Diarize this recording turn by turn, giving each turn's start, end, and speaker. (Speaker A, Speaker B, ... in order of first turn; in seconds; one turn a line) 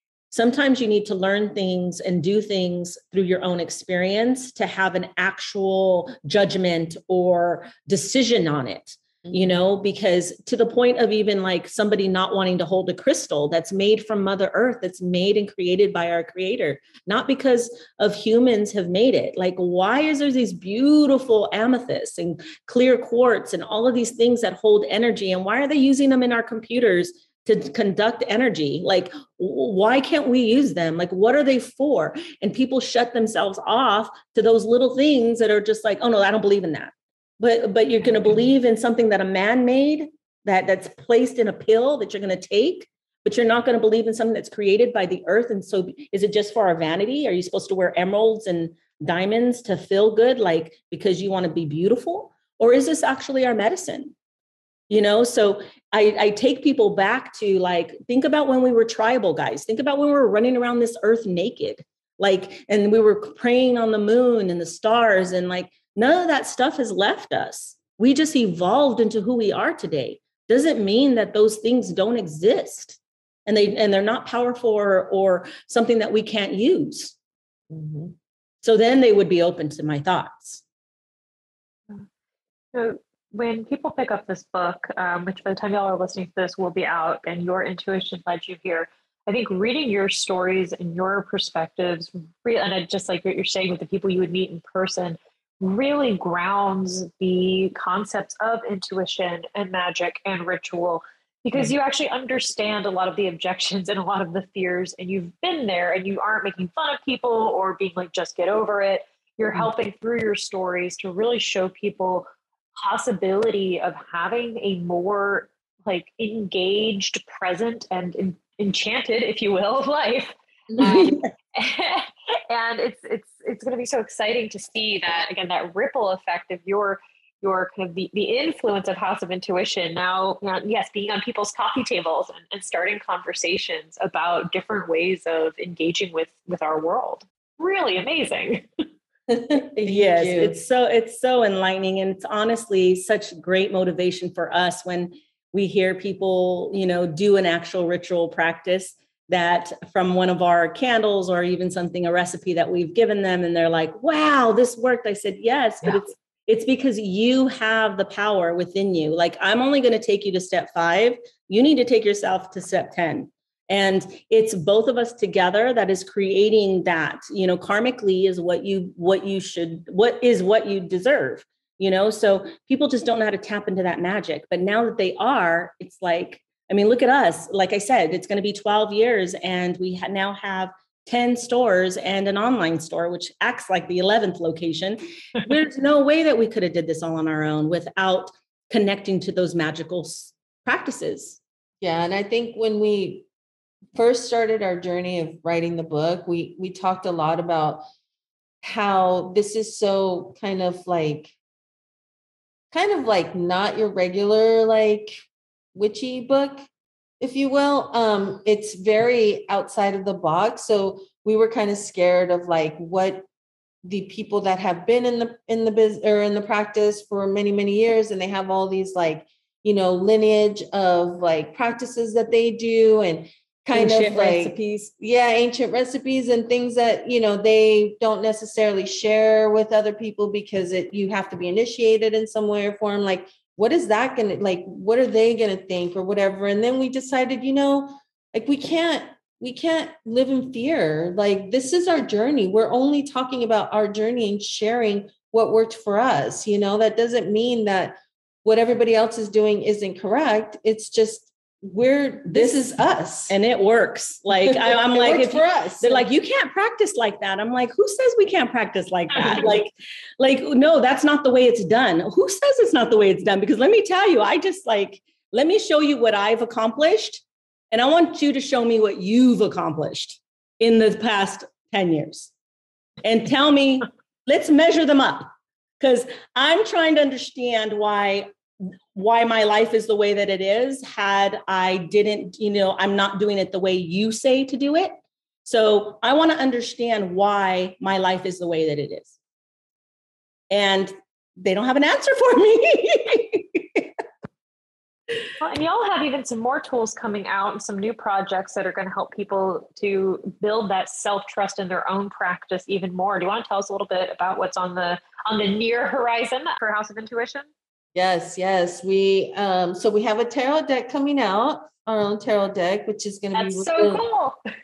Speaker A: 0.3-54.1
Speaker A: 54.9-77.1
Speaker B: 77.7-78.1
Speaker A: 78.6-80.6
Speaker C: 82.7-138.6
Speaker A: 120.8-121.2
Speaker B: 139.3-140.6
Speaker A: 139.8-191.4
Speaker B: 191.8-193.3
Speaker B: 193.9-197.8
Speaker B: 198.6-201.3
Speaker B: 202.7-205.2
Speaker B: 205.7-206.7
Speaker B: 207.2-213.3
Speaker B: 213.8-253.3
Speaker A: 223.7-224.9
Speaker A: 252.2-252.6
Speaker A: 253.3-272.3
Speaker B: 254.4-256.1
Speaker A: 273.0-275.3
Speaker A: 275.8-278.3
Speaker A: 278.9-289.1
Speaker A: 290.5-293.9
Speaker C: 295.4-307.5
Speaker B: 307.9-314.0
Speaker C: 313.3-314.4